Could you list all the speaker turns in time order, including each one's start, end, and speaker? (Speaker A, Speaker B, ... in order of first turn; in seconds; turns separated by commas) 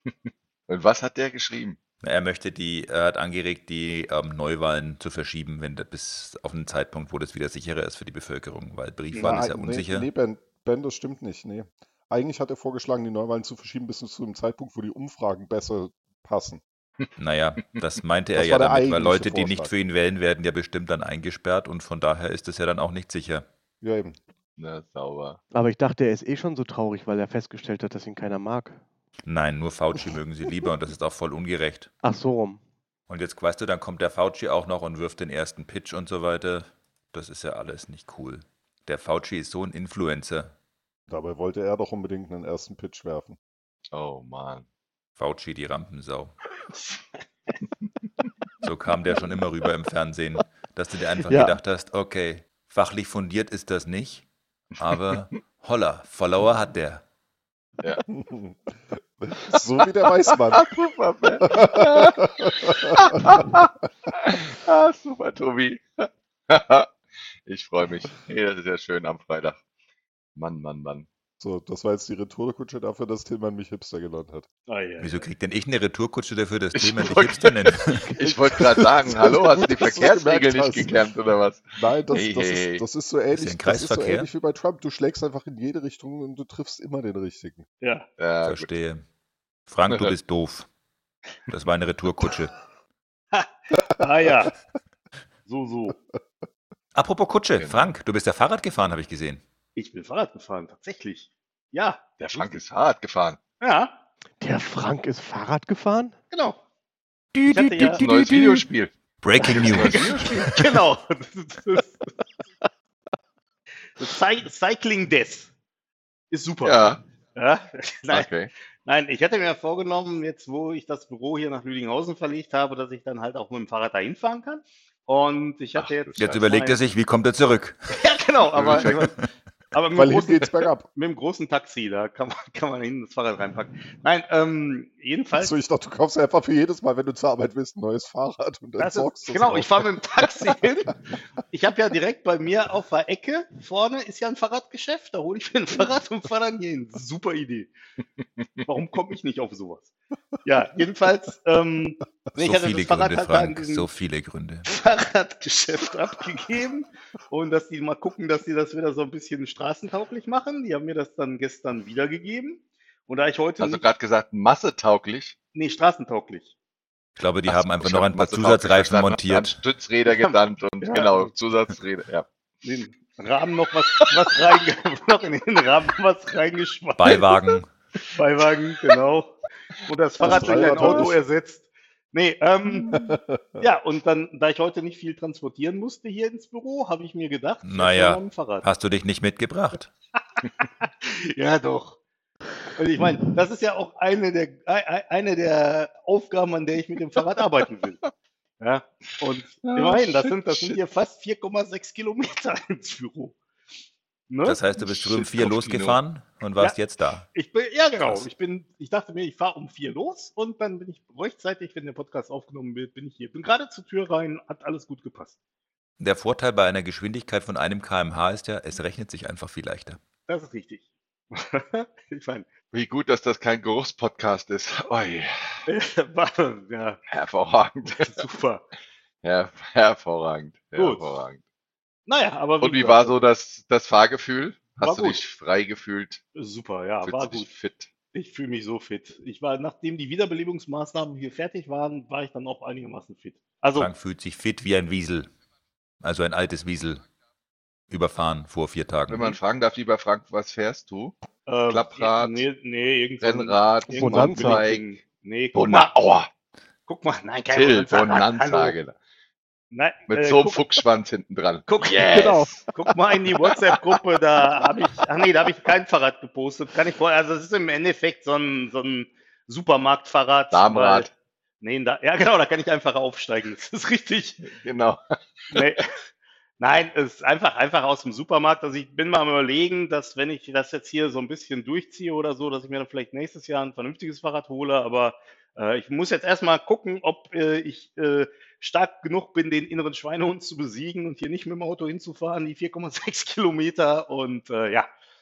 Speaker A: 0.7-1.8, Speaker B: 2.0-10.1, Speaker C: 9.1-9.4, Speaker D: 9.2-16.6, Speaker B: 17.2-23.4, Speaker D: 18.3-19.7, Speaker D: 23.8-24.1, Speaker A: 24.6-25.4, Speaker E: 25.5-28.8, Speaker B: 29.3-31.9, Speaker E: 32.0-32.6, Speaker B: 33.1-40.5, Speaker D: 41.1-43.4, Speaker A: 43.9-44.6, Speaker B: 45.2-46.3, Speaker B: 48.6-54.3, Speaker E: 51.2-51.6, Speaker B: 54.8-57.0, Speaker D: 58.1-60.6, Speaker A: 60.5-69.6, Speaker D: 61.4-62.1, Speaker A: 70.3-71.1, Speaker D: 71.4-74.5, Speaker C: 74.7-75.2, Speaker B: 75.0-78.2, Speaker A: 76.7-82.8, Speaker D: 78.2-81.1, Speaker D: 81.7-87.7, Speaker B: 83.3-84.3, Speaker C: 87.8-88.1, Speaker A: 88.2-88.7, Speaker B: 88.4-89.0, Speaker B: 89.7-90.7, Speaker A: 89.9-90.2, Speaker B: 91.5-92.5, Speaker C: 93.3-94.5, Speaker C: 95.5-96.0, Speaker B: 97.0-99.4, Speaker A: 97.5-97.9, Speaker C: 99.8-102.6, Speaker A: 102.2-103.4, Speaker C: 103.6-103.9, Speaker E: 104.4-106.2, Speaker C: 106.3-106.6, Speaker B: 107.3-108.6, Speaker C: 107.5-108.0, Speaker A: 107.8-109.0, Speaker B: 109.2-110.8, Speaker C: 109.4-112.1, Speaker A: 109.5-110.3, Speaker C: 114.0-115.5, Speaker C: 116.3-118.3, Speaker A: 116.6-117.0, Speaker A: 118.1-118.5, Speaker C: 118.9-126.8, Speaker A: 125.8-126.3, Speaker B: 126.2-127.8, Speaker C: 128.0-129.1, Speaker A: 128.5-129.0, Speaker B: 128.7-129.3, Speaker C: 129.7-135.5, Speaker D: 129.9-130.9, Speaker D: 135.4-139.9, Speaker C: 138.8-141.0, Speaker C: 141.5-147.7, Speaker C: 148.7-149.9, Speaker C: 150.4-153.9, Speaker B: 152.3-154.7, Speaker C: 154.7-163.8, Speaker A: 163.6-165.3, Speaker C: 165.5-166.5, Speaker B: 167.2-169.6, Speaker A: 167.4-172.2, Speaker C: 170.1-171.3, Speaker C: 172.6-177.3, Speaker B: 177.0-177.7, Speaker C: 178.1-188.7, Speaker D: 180.2-181.2, Speaker D: 182.8-183.6, Speaker B: 187.6-189.9, Speaker C: 190.8-192.0, Speaker C: 192.8-198.0, Speaker C: 198.6-203.4, Speaker A: 199.6-200.8, Speaker C: 204.3-204.6, Speaker B: 204.4-207.2, Speaker A: 204.8-206.0, Speaker C: 207.3-215.3, Speaker B: 208.0-208.3, Speaker B: 216.0-220.0, Speaker C: 220.3-222.5, Speaker A: 222.7-225.6, Speaker C: 225.7-227.0, Speaker A: 227.1-228.2, Speaker C: 227.9-228.6, Speaker A: 229.2-231.4, Speaker C: 230.8-231.2, Speaker C: 232.1-233.2, Speaker A: 232.6-236.2, Speaker C: 234.8-235.2, Speaker C: 236.3-237.5, Speaker A: 237.0-237.9, Speaker C: 238.1-243.9, Speaker B: 243.8-245.3, Speaker B: 246.0-247.1, Speaker B: 247.9-249.4, Speaker A: 249.1-252.4, Speaker C: 251.5-255.9, Speaker A: 253.2-254.9, Speaker E: 253.9-254.7, Speaker A: 255.5-256.3, Speaker C: 256.9-258.8, Speaker A: 257.5-258.9, Speaker C: 259.7-260.8, Speaker A: 260.1-263.8, Speaker C: 261.7-271.1, Speaker E: 262.1-262.5, Speaker A: 270.5-271.1, Speaker C: 271.6-274.4, Speaker A: 274.4-275.6, Speaker C: 275.5-275.9, Speaker C: 276.6-294.9